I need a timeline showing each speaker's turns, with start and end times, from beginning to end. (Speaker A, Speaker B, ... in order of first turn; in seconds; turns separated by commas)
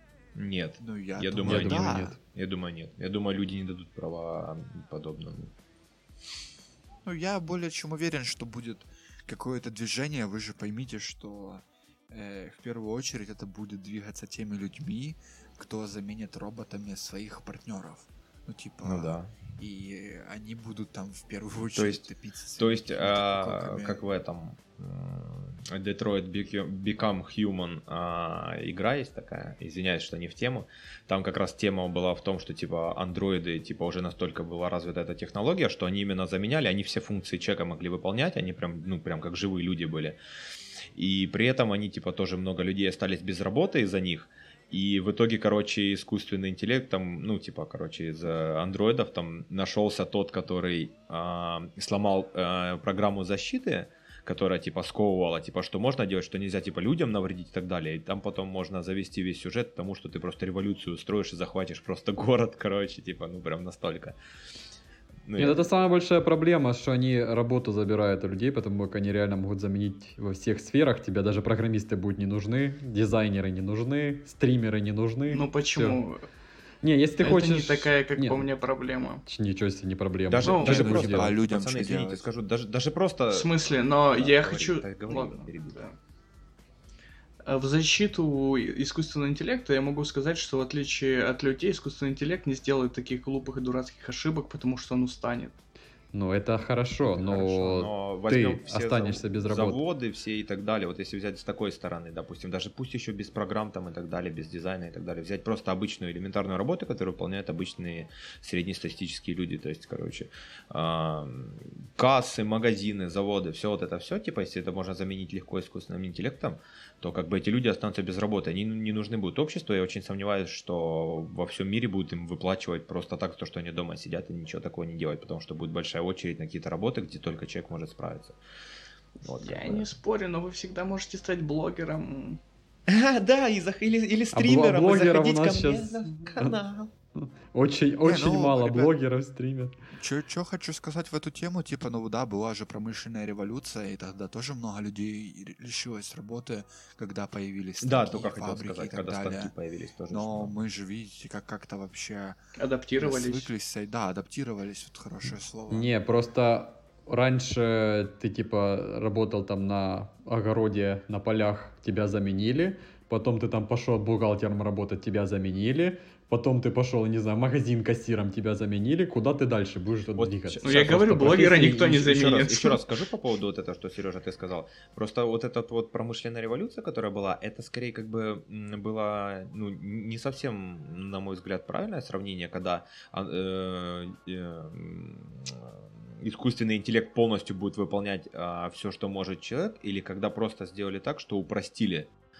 Speaker A: 0.3-5.5, Speaker B: 0.8-2.2, Speaker C: 1.4-2.1, Speaker B: 7.0-24.1, Speaker A: 18.8-19.3, Speaker A: 21.7-40.2, Speaker A: 40.9-64.2, Speaker A: 65.3-65.7, Speaker C: 65.4-76.0, Speaker D: 75.3-76.2, Speaker C: 76.8-78.5, Speaker D: 77.2-79.2, Speaker C: 79.2-81.3, Speaker A: 80.3-85.9, Speaker D: 80.4-80.8, Speaker B: 80.6-82.3, Speaker D: 83.3-86.0, Speaker D: 87.4-95.5, Speaker C: 96.1-99.8, Speaker A: 97.0-128.4, Speaker A: 129.2-129.9, Speaker D: 129.4-132.4, Speaker A: 132.9-136.9, Speaker C: 134.3-136.5, Speaker C: 137.5-139.7, Speaker B: 138.0-138.9, Speaker B: 139.9-149.5, Speaker A: 147.8-150.6, Speaker B: 150.1-152.4, Speaker D: 152.6-153.5, Speaker B: 153.0-155.9, Speaker C: 155.7-172.0, Speaker A: 170.1-192.1, Speaker D: 170.6-172.8